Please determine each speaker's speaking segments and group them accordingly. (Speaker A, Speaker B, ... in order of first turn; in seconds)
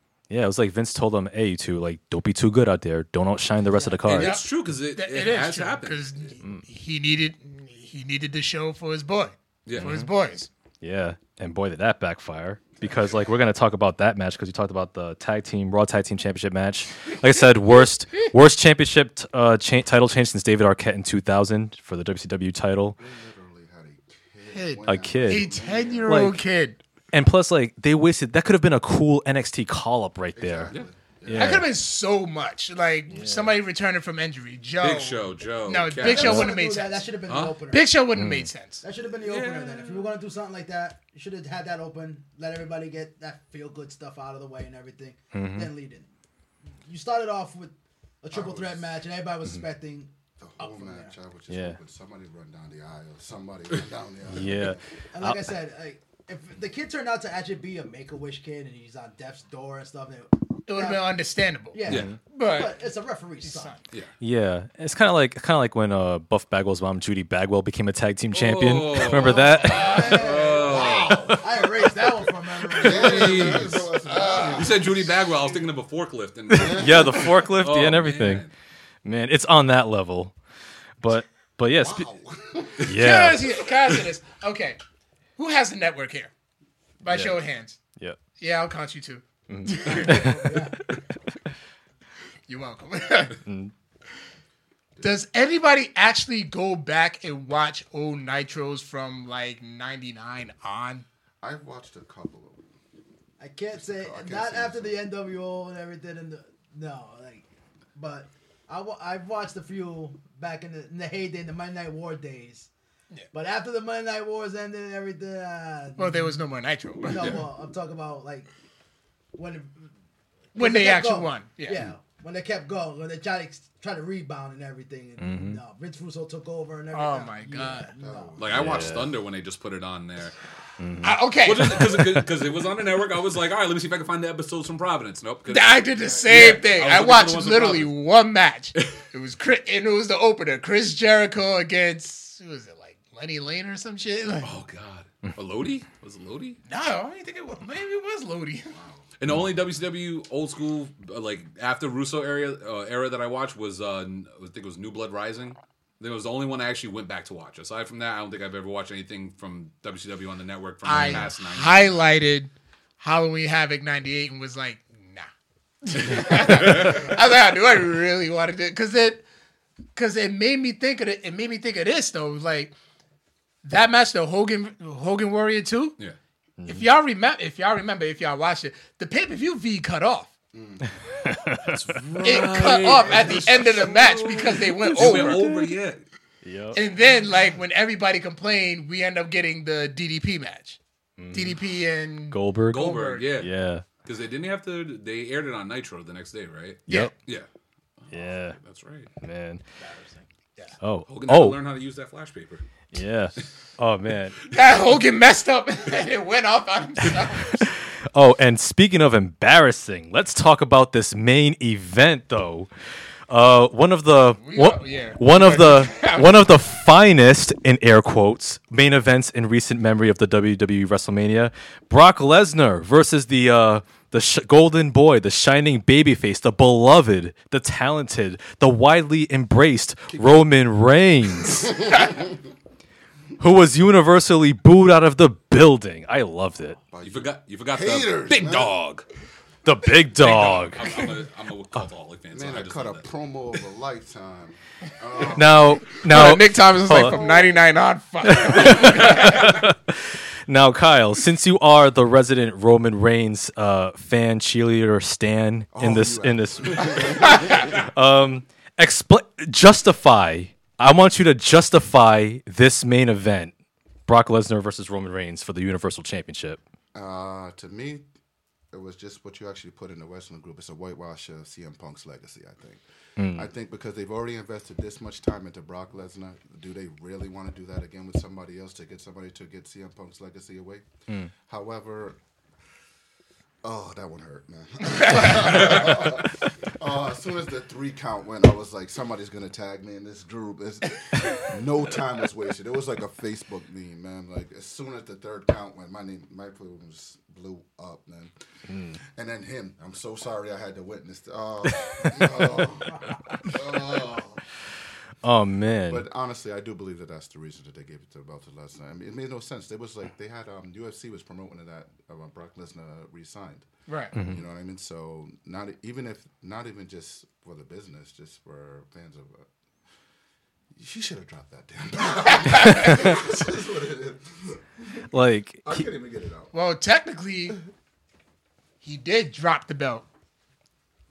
Speaker A: 0.3-4.4, 9.8-10.1, 10.8-23.0, 24.9-25.5, 26.1-26.4, 27.1-30.7, 31.2-31.7, 33.1-33.5, 36.2-36.5, 38.1-38.5, 45.3-45.7, 51.5-51.8, 54.3-55.5, 61.9-62.2, 64.2-70.2, 76.5-78.5, 79.0-80.3, 81.0-82.1, 82.8-83.4, 87.0-87.4, 89.5-90.6, 93.4-93.7, 125.2-125.6, 128.5-129.1, 130.8-131.2, 176.6-176.8, 181.2-181.8, 185.0-185.6, 186.4-186.8, 191.2-191.6, 192.3-193.8, 196.9-197.1, 198.1-198.6, 199.2-199.6, 200.8-201.6, 202.9-204.3, 207.6-212.7, 213.3-231.9, 233.4-236.8, 239.6-240.9, 245.3-247.2, 248.2-263.5, 264.1-266.6, 273.2-273.5, 298.7-298.9, 305.2-306.1, 314.1-314.4, 322.7-323.0, 325.1-325.9
Speaker B: 3.7-4.3, 36.0-38.0, 38.8-46.1, 46.8-51.1, 55.1-61.1, 61.7-63.8, 69.0-73.7, 90.2-90.8, 103.4-112.7, 113.3-116.4, 117.0-118.5, 119.3-119.9, 120.5-128.4, 199.8-200.2, 302.3-303.1
Speaker C: 4.0-6.1, 9.6-10.0, 34.8-36.5, 37.3-37.6, 39.2-40.1, 68.3-71.4, 72.7-78.5, 128.4-130.3, 131.4-137.9, 138.8-139.0, 144.4-146.6, 149.2-162.0, 166.2-167.0, 181.6-186.0, 192.7-193.5, 194.0-197.5, 198.0-199.1, 201.1-202.6, 237.0-239.1, 240.2-243.0
Speaker D: 4.1-10.5, 24.5-26.8, 31.3-37.1, 37.7-38.8, 60.7-61.8, 62.3-62.7, 63.4-63.8, 82.9-84.8, 85.3-86.3, 87.0-87.8, 88.3-90.6, 92.5-93.4, 95.0-101.0, 116.0-117.4, 120.5-121.8, 126.9-127.9, 131.0-132.1, 135.5-144.5, 146.7-148.8, 160.8-165.3, 165.8-169.2, 169.9-172.7, 173.6-175.9, 176.7-180.3, 182.2-185.5, 186.7-190.8, 191.3-193.2, 204.4-207.7, 214.4-216.5, 245.9-249.6, 313.9-314.1, 326.5-327.6, 328.8-330.0
Speaker E: 23.0-26.4, 30.3-31.6, 48.3-49.0, 50.4-54.8, 70.8-71.3, 72.8-75.2, 76.5-77.5, 81.7-83.0, 95.0-95.2, 101.4-102.6, 103.7-105.1, 128.0-128.9, 135.9-136.8, 148.7-149.0, 180.5-180.9, 230.1-230.5, 231.5-232.3, 236.8-238.8, 242.3-246.0, 255.7-257.8, 266.9-268.1, 268.7-280.9, 281.4-282.2, 283.6-298.3, 298.9-304.4, 305.9-319.5, 320.7-325.1, 325.6-326.5